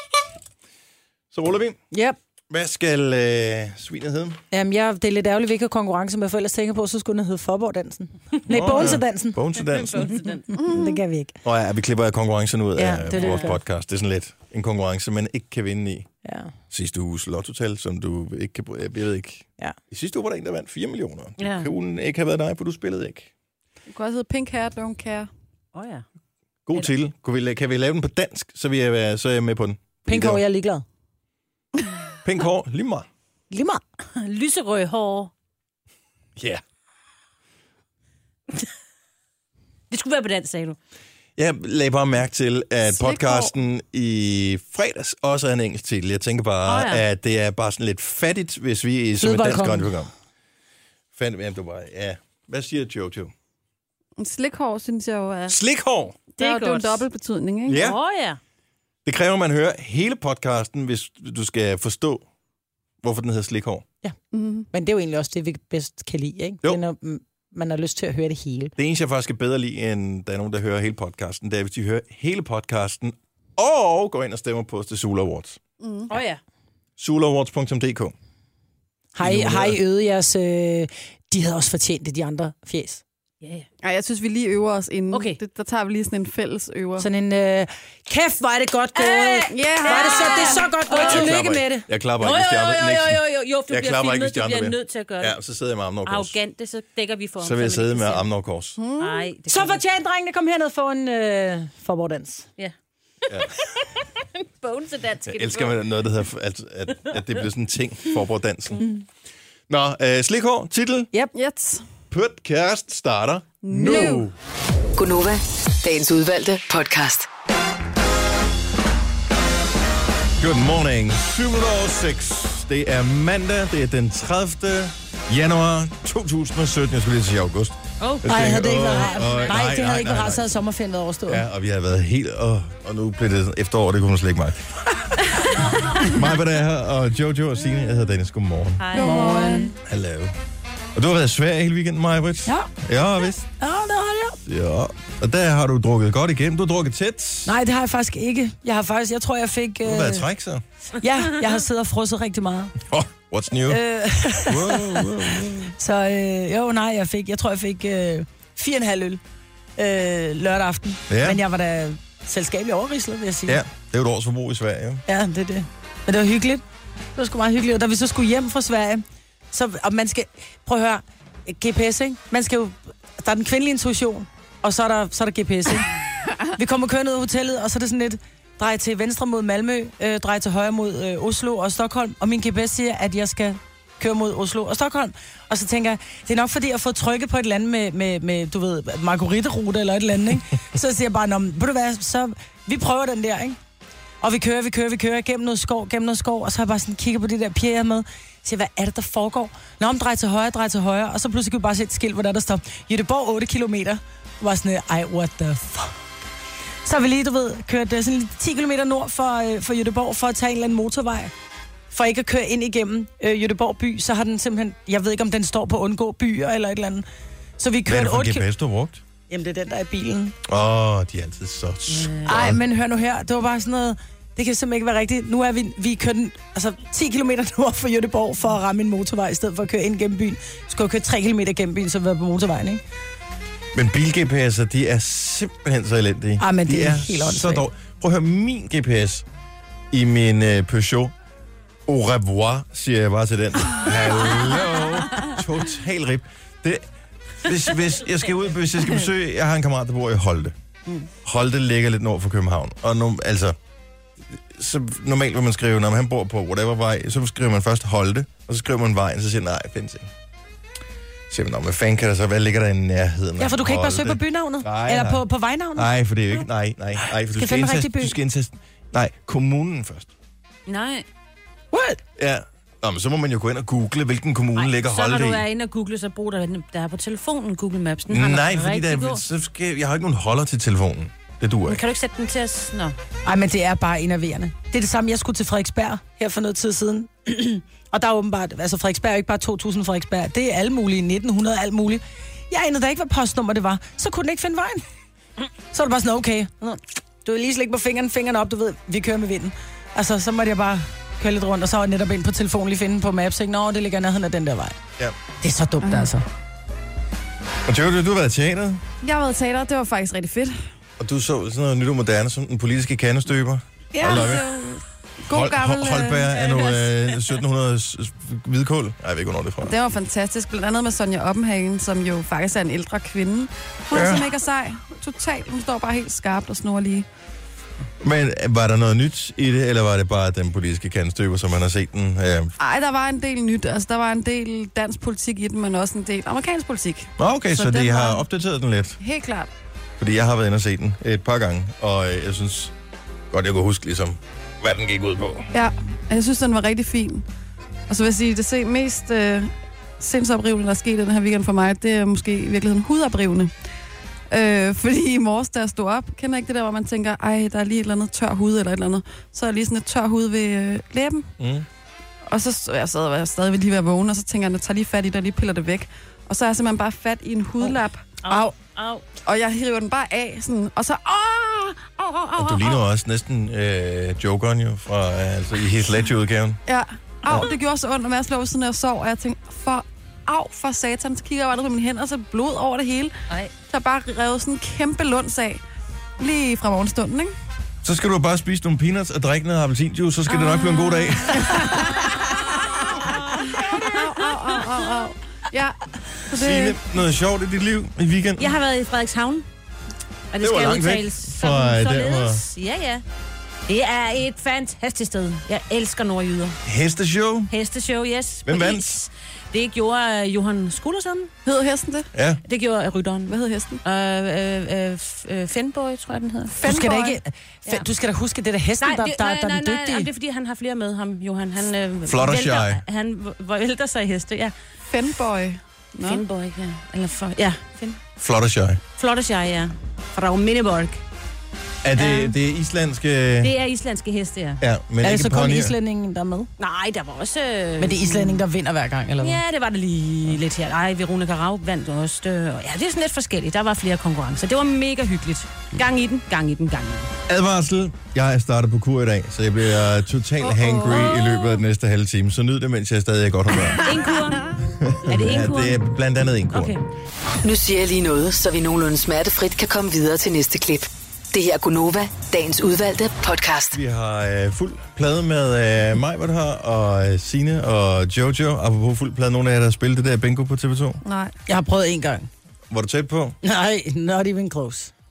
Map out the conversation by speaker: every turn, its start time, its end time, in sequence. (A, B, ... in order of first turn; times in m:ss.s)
0:01.3-0:01.8 A
0:01.9-0:02.2 B
0:02.5-0:04.4 A
0:04.5-0:09.5 B
0:08.5-0:10.1 A
0:09.6-0:10.5 C
0:10.5-0:11.4 B
0:10.5-0:11.0 D
0:11.4-0:16.1 A
0:12.8-0:13.6 B
0:13.1-0:13.5 C
0:16.2-0:16.5 B
0:16.7-0:23.3 A
0:21.4-0:21.7 C
0:23.9-0:25.3 D
0:25.7-0:26.0 C
0:26.7-0:30.4 A
0:30.0-0:30.8 B
0:32.2-0:33.1 A
0:33.5-0:33.8 B
0:34.2-0:35.3 C
0:39.9-0:40.8 C
0:41.4-0:50.1 A
0:42.9-0:43.5 D
0:46.7-0:47.0 C
0:49.2-0:50.0 B
0:51.1-0:53.3 A
0:54.2-0:55.6 D
0:55.5-0:56.2 A
0:56.4-0:57.8 D
0:56.4-0:57.0 C
0:57.7-0:58.0 A
0:57.7-0:58.4 C
0:59.0-1:02.2 A
1:03.0-1:03.8 A
1:04.3-1:04.7 D
1:04.7-1:08.7 B
1:08.8-1:15.6 A
1:15.8-1:16.1 D
1:16.1-1:16.4 C
1:17.0-1:18.1 A
1:19.1-1:23.0 B
1:19.2-1:19.8 A
1:23.8-1:27.1 D
1:25.1-1:25.4 C
1:27.0-1:31.9 B
1:28.9-1:31.4 C
1:29.5-1:30.7 D
1:31.0-1:36.3 A
1:32.2-1:35.4 C
1:36.0-1:38.3 C
1:37.4-1:38.8 A
1:38.8-1:39.3 D
1:39.0-1:39.8 C
1:39.5-1:42.5 B
1:42.6-1:43.9 C
1:44.4-1:45.8 C
1:45.3-1:48.8 A
1:49.7-1:51.1 A
1:51.3-1:51.8 D
1:52.1-1:54.3 A
1:53.6-1:54.2 D
1:54.9-1:57.3 E
2:00.4-2:10.6 A
2:08.0-2:09.6 C
2:08.3-2:11.4 B
2:11.3-2:14.7 A
2:16.0-2:18.9 A
2:18.8-2:19.7 C
2:18.9-2:19.7 B
2:18.9-2:19.7 D
2:19.8-2:20.3 A
2:21.0-2:23.4 A
2:22.5-2:22.7 B
2:23.4-2:24.4 B
2:24.5-2:27.5 A
2:27.4-2:30.3 B
2:29.8-2:30.6 A
2:31.0-2:32.7 B
2:32.9-2:33.8 A
2:33.7-2:39.2 B
2:34.4-2:35.7 A
2:39.8-2:43.6 B
2:41.1-2:41.4 A
2:43.5-2:45.0 A
2:45.1-2:46.6 B
2:47.2-2:55.9 B
2:56.6-3:13.6 B
3:14.2-3:26.0 B
3:26.8-3:31.3 B
3:31.9-3:37.1 B
3:37.6-3:38.5 B
3:37.9-3:39.0 A
3:39.3-3:40.4 B
3:40.4-3:42.6 A
3:41.9-3:42.4 C
3:42.2-3:52.8 B
3:53.7-3:59.2 A
3:56.4-3:57.7 B
3:59.9-4:01.1 A
4:01.9-4:06.8 A
4:07.4-4:10.5 A
4:11.2-4:13.6 A
4:14.5-4:20.1 A
4:21.3-4:25.2 A
4:23.4-4:25.9 B
4:25.8-4:30.1 A
4:27.3-4:28.2 B
4:30.7-4:31.1 C
4:31.7-4:32.0 B
4:32.2-4:35.4 A
4:34.6-4:39.2 C
4:38.1-4:41.8 A
4:41.6-4:43.0 C
4:43.2-4:54.8 B
4:55.7-5:04.8 B
5:05.4-5:06.2 B
5:05.8-5:06.1 D
5:07.6-5:08.8 A
5:09.0-5:10.6 D
5:11.0-5:14.4 A
5:13.9-5:16.9 D
5:15.3-5:19.7 A
5:19.6-5:27.1 D
5:23.9-5:24.2 A
5:28.0-5:32.5 A
5:32.6-5:38.2 D
5:37.2-5:39.0 A
5:39.0-5:39.5 D
5:40.0-5:42.7 A
5:43.3-5:45.5 A
5:45.5-5:47.2 D
5:47.9-5:53.5 D
5:54.3-6:01.3 D
6:01.4-6:01.6 A
6:02.3-6:08.5 D
6:07.6-6:09.0 C
6:09.2-6:12.8 D
6:12.4-6:16.6 A
6:16.6-6:23.1 D
6:23.7-6:25.6 D
6:26.2-6:27.4 D
6:27.8-6:31.6 A
6:30.3-6:36.8 D
6:36.4-6:38.5 A
6:38.4-6:39.4 C
6:40.3-6:43.0 C
6:40.4-6:42.4 A
6:43.7-6:46.6 C
6:46.6-6:47.5 A
6:47.5-6:51.3 C
6:48.4-6:49.0 A
6:51.4-6:52.1 D
6:52.1-6:52.4 A
6:52.4-6:56.6 C
6:53.3-6:53.8 D
6:56.6-6:57.2 D
6:56.6-7:00.1 B
6:58.8-7:04.5 C
7:02.1-7:02.8 A
7:04.9-7:06.2 D
7:06.0-7:08.0 C
7:08.2-7:08.8 A
7:09.0-7:11.0 C
7:11.8-7:13.5 A
7:12.0-7:12.3 C
7:13.4-7:14.6 C
7:14.6-7:15.8 A
7:15.0-7:16.5 B
7:16.6-7:18.4 C
7:17.8-7:19.4 B
7:19.2-7:27.1 C
7:27.3-7:33.8 A
7:30.5-7:31.1 D
7:30.9-7:31.5 C
7:33.8-7:34.5 C
7:34.7-7:36.8 A
7:35.1-7:35.8 C
7:36.5-7:36.8 C
7:37.4-7:43.8 E
7:43.7-7:51.0 A
7:51.0-7:51.3 D
7:51.5-7:52.3 B
7:52.7-7:53.4 A
7:53.4-7:54.9 B